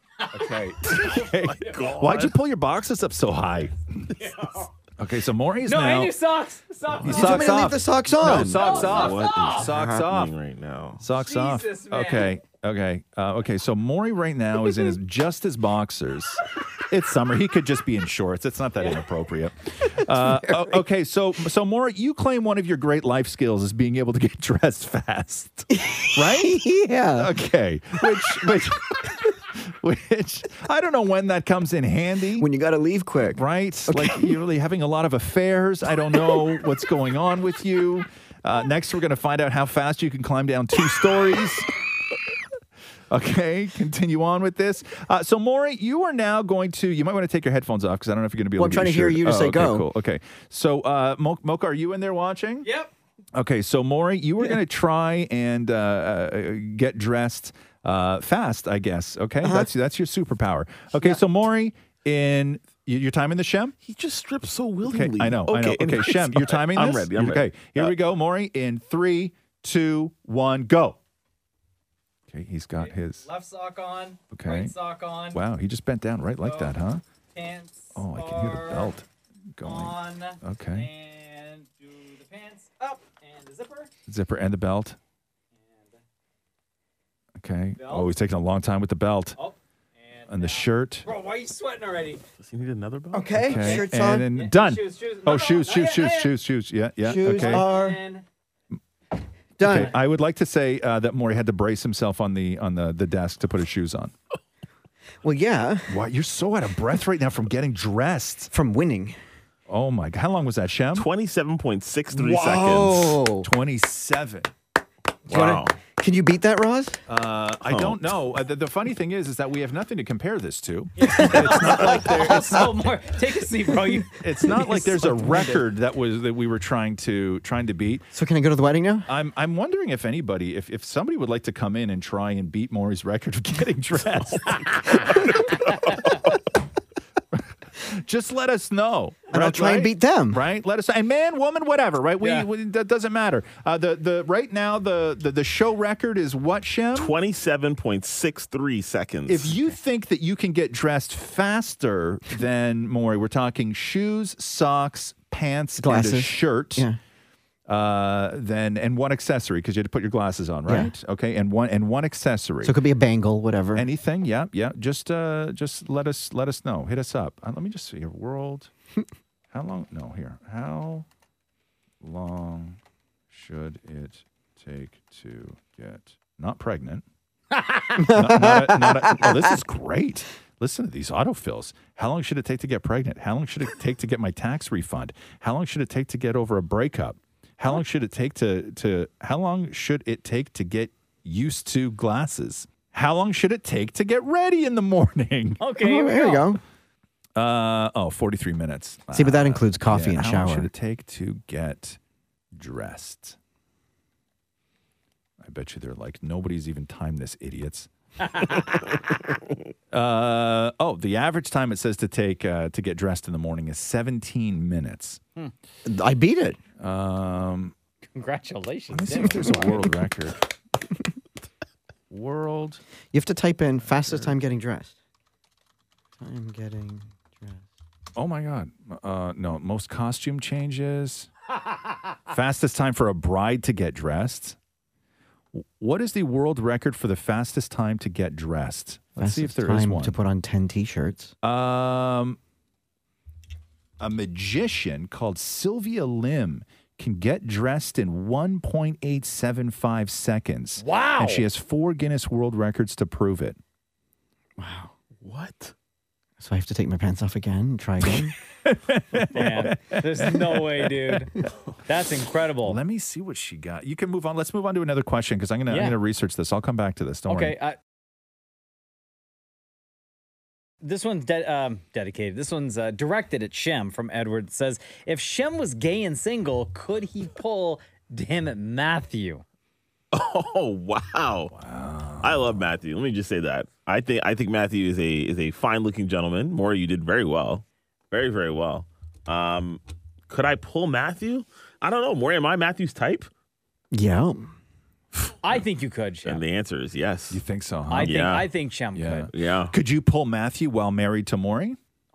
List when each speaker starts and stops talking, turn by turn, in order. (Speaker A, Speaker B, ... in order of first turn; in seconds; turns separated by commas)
Speaker A: 0.2-2.2, Speaker B: 0.3-4.1, Speaker C: 1.0-2.3, Speaker A: 4.1-4.7, Speaker B: 5.0-6.1, Speaker A: 5.7-7.7, Speaker B: 7.0-10.3, Speaker D: 7.1-8.9, Speaker C: 8.2-11.0, Speaker A: 8.5-9.7, Speaker D: 9.6-10.1, Speaker B: 11.0-26.6, Speaker A: 11.2-12.4, Speaker A: 18.8-19.1, Speaker D: 20.2-20.7, Speaker D: 25.7-27.3, Speaker B: 27.2-32.5, Speaker D: 32.4-34.4, Speaker B: 33.3-41.7, Speaker B: 43.1-52.7, Speaker D: 48.6-49.9, Speaker A: 52.6-52.9, Speaker B: 53.3-63.8, Speaker D: 59.4-59.7, Speaker C: 63.8-68.0, Speaker B: 64.8-71.0, Speaker B: 72.3-73.2, Speaker A: 72.8-75.4, Speaker B: 74.3-74.8, Speaker B: 75.3-77.0, Speaker A: 76.4-76.7, Speaker A: 77.3-78.9, Speaker B: 78.0-80.9, Speaker A: 79.6-83.9, Speaker B: 84.1-85.0, Speaker A: 85.7-86.0, Speaker B: 87.4-89.4, Speaker A: 87.8-88.1, Speaker A: 89.4-92.2, Speaker B: 90.3-91.1, Speaker C: 92.4-93.4, Speaker D: 93.1-94.3, Speaker B: 93.4-97.7, Speaker A: 93.5-96.4, Speaker D: 97.0-98.0, Speaker A: 97.2-98.3, Speaker D: 99.6-100.0, Speaker B: 99.6-104.1, Speaker D: 105.2-106.1, Speaker B: 105.9-108.5, Speaker D: 108.5-109.2, Speaker B: 109.7-111.1, Speaker C: 111.0-113.2, Speaker D: 112.1-113.5, Speaker B: 113.4-114.5, Speaker C: 115.3-115.7, Speaker D: 115.3-117.0, Speaker B: 117.1-123.0, Speaker C: 117.7-118.0, Speaker A: 121.0-124.2, Speaker D: 121.2-122.4, Speaker B: 124.2-128.1, Speaker D: 124.4-125.6, Speaker A: 124.9-125.5, Speaker D: 128.1-129.1, Speaker B: 129.1-135.7, Speaker B: 137.8-147.2, Speaker D: 139.3-140.4, Speaker A: 142.2-142.5, Speaker C: 146.9-149.6, Speaker B: 149.3-156.9, Speaker D: 155.8-157.0, Speaker B: 157.7-162.8, Speaker D: 160.7-160.9, Speaker D: 162.6-163.9, Speaker B: 163.8-168.7, Speaker B: 169.5-171.1, Speaker B: 172.0-172.8, Speaker B: 173.3-177.1, Speaker A: 177.6-178.0, Speaker D: 178.0-179.6, Speaker B: 178.0-195.6, Speaker A: 195.6-196.5, Speaker D: 195.8-196.6, Speaker B: 197.4-202.0, Speaker D: 199.1-200.7, Speaker B: 202.6-203.4, Speaker B: 205.4-207.9, Speaker A: 208.2-208.9, Speaker B: 209.9-215.2, Speaker D: 215.8-216.6, Speaker B: 216.8-217.7, Speaker A: 218.2-219.8, Speaker B: 218.9-220.4, Speaker D: 219.4-219.8, Speaker B: 222.1-222.8, Speaker D: 223.1-224.9, Speaker B: 223.8-224.3, Speaker D: 226.2-227.6, Speaker B: 228.2-231.3, Speaker B: 232.3-234.6, Speaker B: 235.5-240.2, Speaker D: 239.2-241.3, Speaker B: 241.4-242.4, Speaker B: 244.0-253.6, Speaker A: 250.8-251.5, Speaker D: 254.6-254.9, Speaker C: 255.2-255.7, Speaker D: 256.4-258.3, Speaker B: 258.1-261.2, Speaker A: 259.3-261.3, Speaker A: 261.9-262.8, Speaker B: 262.6-267.6, Speaker A: 265.7-266.0, Speaker A: 267.3-267.8, Speaker A: 270.8-279.4, Speaker C: 280.1-281.5, Speaker B: 281.5-282.6, Speaker C: 282.2-293.3, Speaker D: 293.9-294.5, Speaker A: 295.4-296.4, Speaker C: 296.3-297.4, Speaker B: 297.3-298.2, Speaker A: 297.9-299.3, Speaker C: 298.0-298.5, Speaker B: 298.9-301.8, Speaker C: 299.3-299.7